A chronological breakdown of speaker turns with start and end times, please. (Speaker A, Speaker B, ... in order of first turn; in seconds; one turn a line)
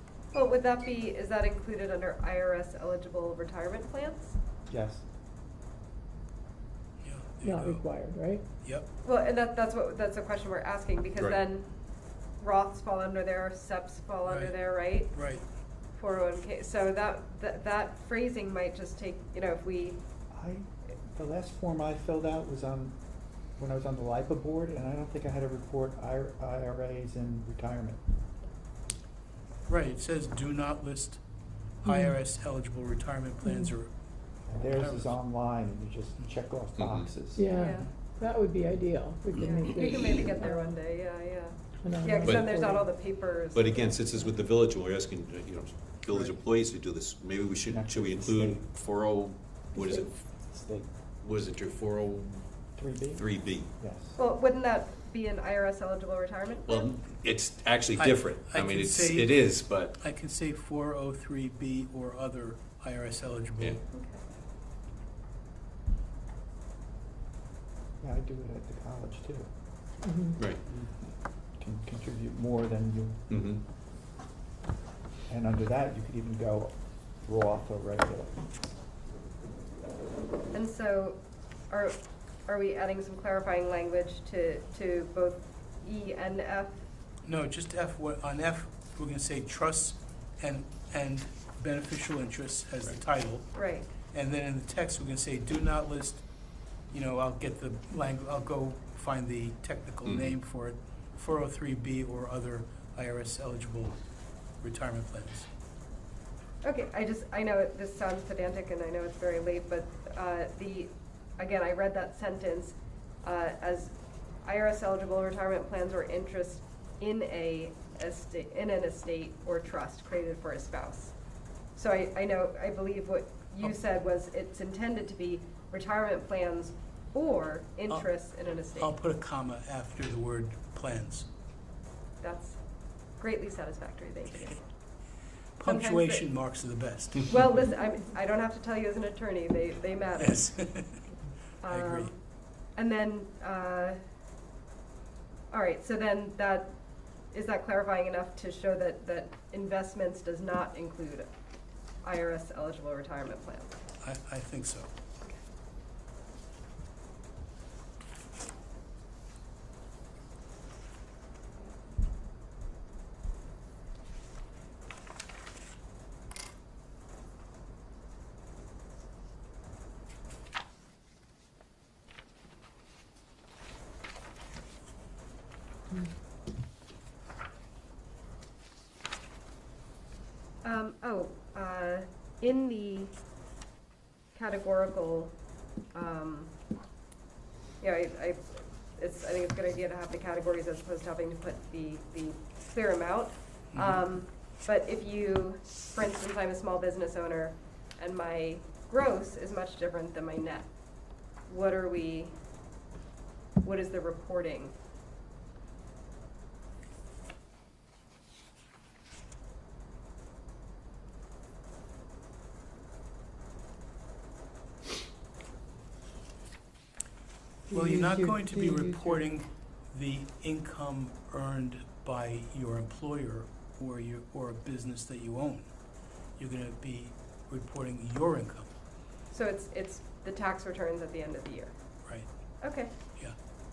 Speaker A: 0.3-4.3
Speaker B: 4.7-5.0
Speaker C: 7.0-7.9
Speaker D: 7.4-8.4
Speaker C: 8.6-8.9
Speaker A: 9.0-11.7
Speaker A: 12.4-15.1
Speaker C: 14.2-15.4
Speaker A: 15.9-20.0
Speaker B: 20.3-23.0
Speaker B: 23.6-28.0
Speaker C: 29.7-31.2
Speaker C: 31.8-33.9
Speaker D: 31.8-32.2
Speaker D: 33.4-33.7
Speaker B: 34.5-37.5
Speaker C: 34.7-35.2
Speaker E: 36.8-37.1
Speaker D: 37.3-40.8
Speaker A: 37.5-37.9
Speaker C: 37.6-37.9
Speaker A: 39.4-44.0
Speaker D: 41.7-42.9
Speaker E: 43.5-50.2
Speaker B: 47.7-48.6
Speaker E: 51.2-52.5
Speaker B: 52.8-54.2
Speaker E: 53.1-53.7
Speaker A: 54.1-56.9
Speaker E: 56.7-60.0
Speaker C: 58.0-63.8
Speaker A: 63.9-64.2
Speaker B: 68.0-69.5
Speaker D: 70.0-70.4
Speaker E: 70.4-70.6
Speaker B: 71.5-73.2
Speaker E: 73.3-73.6
Speaker B: 75.3-78.3
Speaker A: 80.5-86.8
Speaker C: 87.2-93.5
Speaker A: 93.5-93.9
Speaker C: 94.1-96.2
Speaker C: 96.9-104.0
Speaker E: 100.0-100.4
Speaker C: 104.6-105.5
Speaker A: 106.6-121.1
Speaker A: 121.8-128.9
Speaker C: 128.7-131.3
Speaker A: 132.2-132.6
Speaker A: 133.2-134.7
Speaker C: 135.6-137.3
Speaker A: 135.6-136.2
Speaker A: 137.2-140.5
Speaker C: 140.2-141.1
Speaker A: 141.6-142.2
Speaker C: 141.7-142.1
Speaker A: 142.8-144.0
Speaker A: 145.5-146.7
Speaker A: 147.3-151.3
Speaker A: 152.0-153.7
Speaker C: 154.0-154.9
Speaker A: 180.6-183.1
Speaker A: 184.3-185.3
Speaker A: 185.9-186.5
Speaker A: 187.8-200.7
Speaker C: 193.7-194.0
Speaker A: 201.5-202.3
Speaker A: 203.6-204.7
Speaker D: 217.7-219.3
Speaker C: 217.7-225.7
Speaker C: 226.4-228.7
Speaker A: 229.3-231.7
Speaker A: 232.6-232.9